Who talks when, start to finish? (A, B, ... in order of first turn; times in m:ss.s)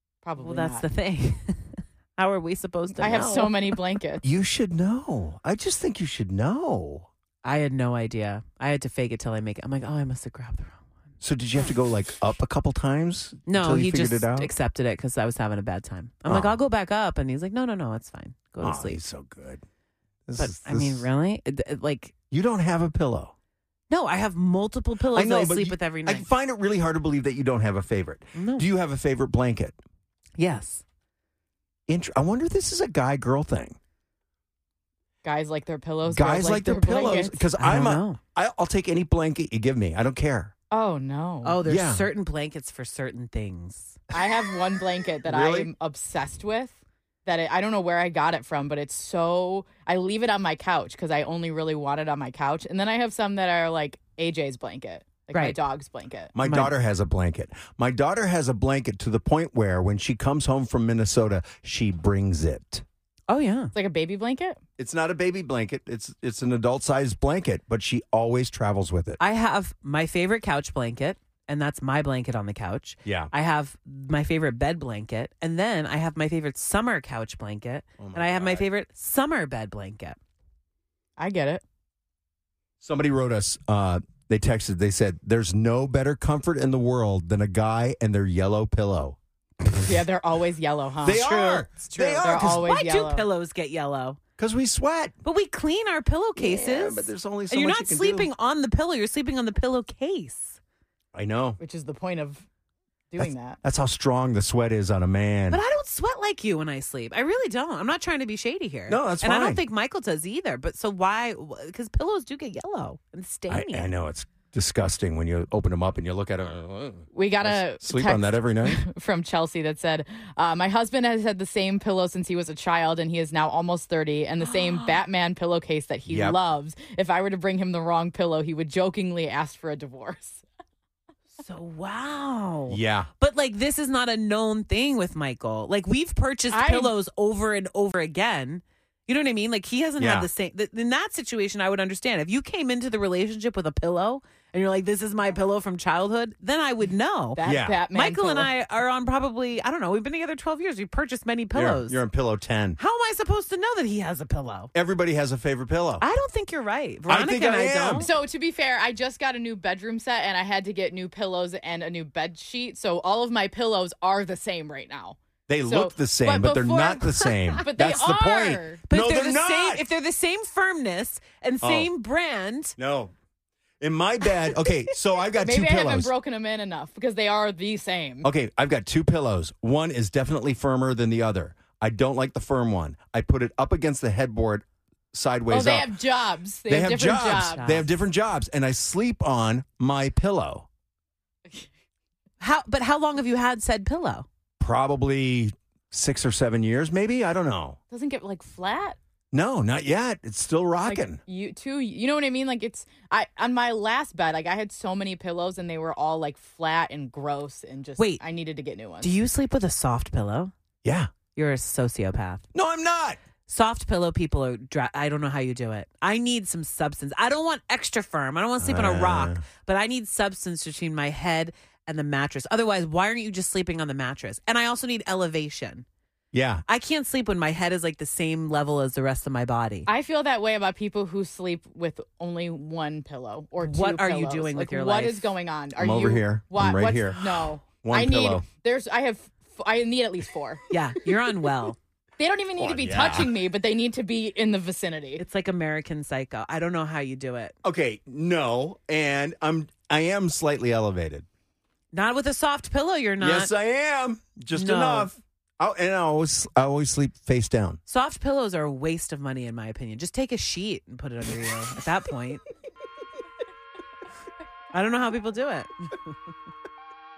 0:00.2-0:00.8 A
0:00.4-0:03.9 B
0:03.0-0:04.2 A
0:04.2-0:07.1 C
0:07.4-0:10.8 B
0:11.2-0:14.5 C
0:13.5-0:19.0 B
0:16.3-0:16.5 C
0:18.6-0:19.6 C
0:20.3-0:21.1 C
0:20.4-0:22.1 B
0:22.3-0:23.3 C
0:23.9-0:26.3 B
0:25.1-0:29.8 C
0:28.3-0:28.6 B
0:30.4-0:30.8 B
0:31.9-0:33.8 C
0:35.2-0:37.5 A
0:36.0-0:40.5 C
0:37.6-0:38.2 B
0:40.7-0:41.6 A
0:41.4-0:44.0 B
0:41.6-0:42.1 C
0:44.1-0:56.3 A
0:45.2-0:45.7 C
0:55.3-0:55.6 B
0:56.4-1:02.8 C
0:56.4-0:56.7 B
1:03.3-1:03.7 B
1:03.7-1:04.6 A
1:04.8-1:09.2 C
1:09.2-1:20.2 B
1:13.0-1:13.3 C
1:18.0-1:18.6 C
1:21.2-1:21.6 A
1:22.8-1:29.2 C
1:29.8-1:33.3 A
1:31.0-1:32.7 C
1:31.2-1:34.2 B
1:34.4-1:35.1 C
1:35.2-1:40.6 B
1:36.4-1:38.3 C
1:41.1-1:41.6 C
1:41.6-1:42.4 A
1:43.1-1:43.6 A
1:43.2-1:45.6 C
1:45.5-1:53.9 B
1:48.9-1:49.6 C
1:53.5-1:58.8 C
1:57.1-2:10.4 A
2:04.4-2:05.0 B
2:06.1-2:06.4 C
2:11.4-2:32.0 B
2:12.7-2:13.1 C
2:16.5-2:16.9 A
2:20.0-2:20.3 C
2:27.4-2:28.5 A
2:27.4-2:27.8 C
2:31.5-2:32.8 C
2:32.8-2:34.7 B
2:34.7-2:36.0 C
2:36.0-2:38.1 B
2:37.1-2:38.1 C
2:38.0-2:48.8 A
2:45.5-2:49.8 C
2:47.2-2:47.6 B
2:48.8-2:52.8 B
2:51.6-2:51.9 C
2:52.8-2:53.1 C
2:53.8-2:56.1 C
2:55.3-2:58.3 A
2:58.2-3:05.9 C
3:05.5-3:07.7 A
3:06.7-3:10.7 C
3:07.1-3:07.9 B
3:12.4-3:14.2 B
3:14.6-3:17.8 C
3:17.9-3:19.0 A
3:19.3-3:21.2 C
3:20.8-3:29.1 A
3:29.0-3:30.5 B
3:30.8-3:31.1 C
3:31.3-3:32.4 B
3:32.5-3:33.2 C
3:33.5-3:45.8 B
3:38.6-3:39.4 C
3:46.3-3:46.6 C
3:46.7-3:49.9 B
3:49.9-4:00.6 A
3:53.6-3:55.4 B
3:55.8-3:58.4 C
4:00.7-4:01.8 B
4:02.2-4:05.2 A
4:02.6-4:03.3 C
4:05.2-4:07.5 B
4:07.6-4:11.2 C
4:11.9-4:13.5 B
4:13.2-4:17.8 C
4:14.5-4:15.1 B
4:17.9-4:22.4 B
4:24.7-4:25.9 B